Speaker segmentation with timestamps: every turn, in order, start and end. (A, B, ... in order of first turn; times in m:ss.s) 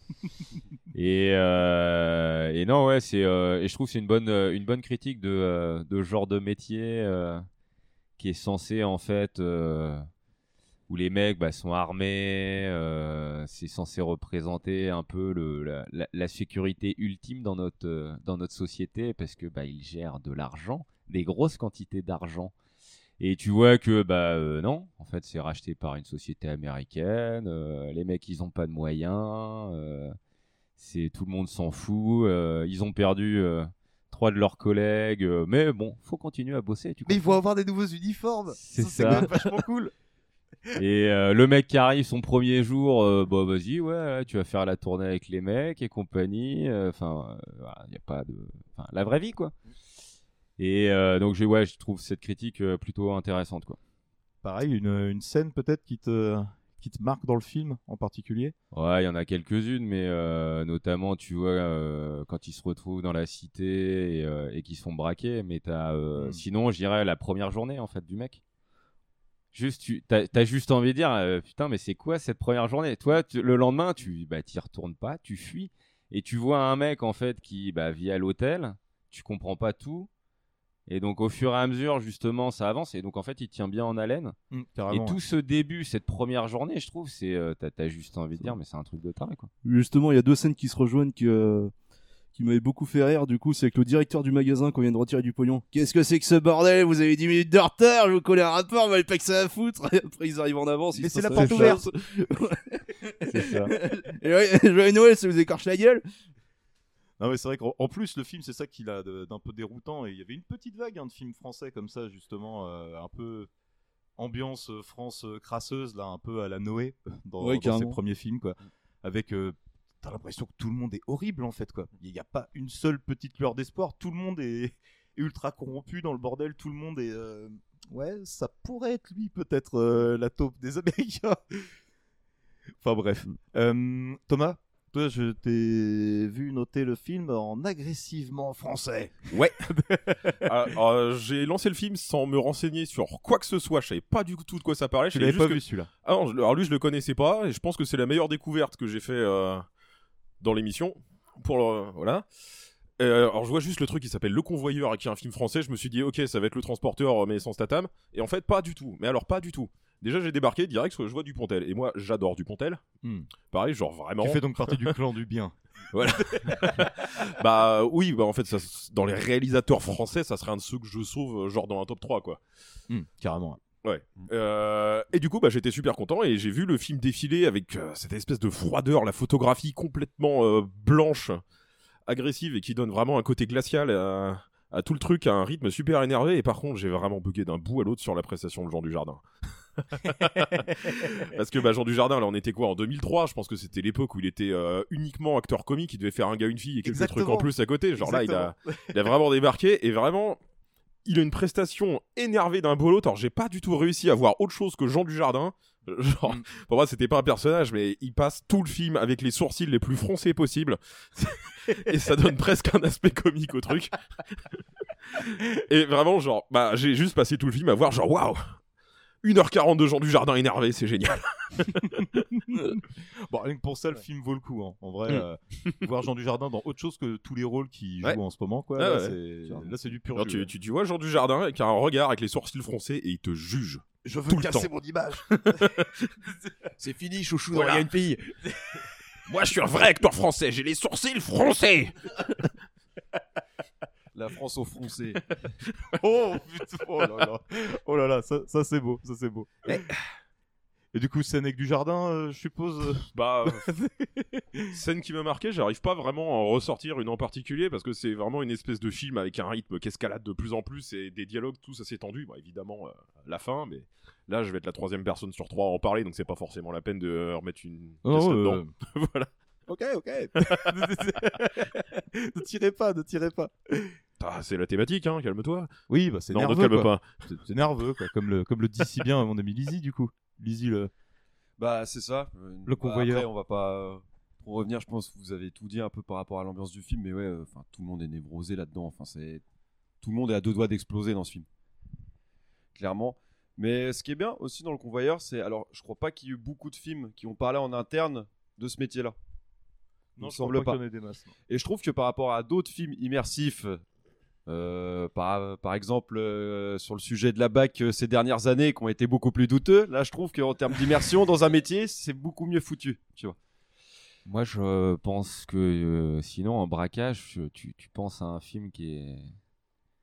0:00.9-0:07.5 A
0:08.2-0:10.1 A
0:10.9-0:22.5 A
0:23.2-0:30.2 A
0:30.8-0:37.4 A
0:37.1-0:39.9 B
0:38.6-0:39.6 A
0:40.8-0:49.5 A
0:50.6-0:53.8 A
0:54.4-0:58.6 B
0:58.7-1:08.4 A
1:09.5-1:20.1 A
1:20.9-1:24.4 A
1:24.5-1:25.2 B
1:24.9-1:29.5 A
1:29.6-1:31.7 C
1:32.4-1:46.0 C
1:40.9-1:41.8 B
1:43.3-1:43.7 A
1:47.2-1:53.5 B
1:54.2-2:11.8 B
1:57.4-1:58.0 C
2:12.8-2:19.3 B
2:20.1-2:29.6 D
2:25.1-2:25.9 B
2:30.4-2:32.2 D
2:33.0-2:42.8 D
2:43.0-2:43.3 B
2:43.5-2:44.9 D
2:44.2-2:46.9 B
2:45.9-2:52.4 D
2:52.9-2:53.6 B
2:53.8-3:01.4 D
3:02.1-3:09.2 D
3:09.8-3:20.4 D
3:16.8-3:18.6 B
3:21.0-3:34.0 D
3:35.2-3:38.5 D
3:39.2-3:41.9 D
3:42.0-3:50.5 B
3:48.8-3:49.2 D
3:50.1-3:54.7 D
3:54.0-3:55.3 B
3:55.6-3:55.9 D
3:56.8-3:58.2 E
3:57.5-3:57.9 D
3:59.3-4:01.9 D
4:04.1-4:05.2 E
4:05.9-4:09.9 B
4:10.9-4:14.7 B
4:13.1-4:13.7 D
4:14.7-4:29.3 D
4:28.0-4:28.7 B
4:29.7-4:34.0 B
4:30.4-4:30.7 D
4:34.2-4:35.7 D
4:35.9-4:40.9 B
4:36.3-4:37.1 D
4:41.6-4:49.4 E
4:42.7-4:43.3 B
4:50.0-4:51.5 E
4:52.8-4:59.2 E
5:00.2-5:01.3 B
5:00.2-5:00.8 E
5:01.5-5:03.8 E
5:04.5-5:13.4 E
5:14.2-5:19.3 A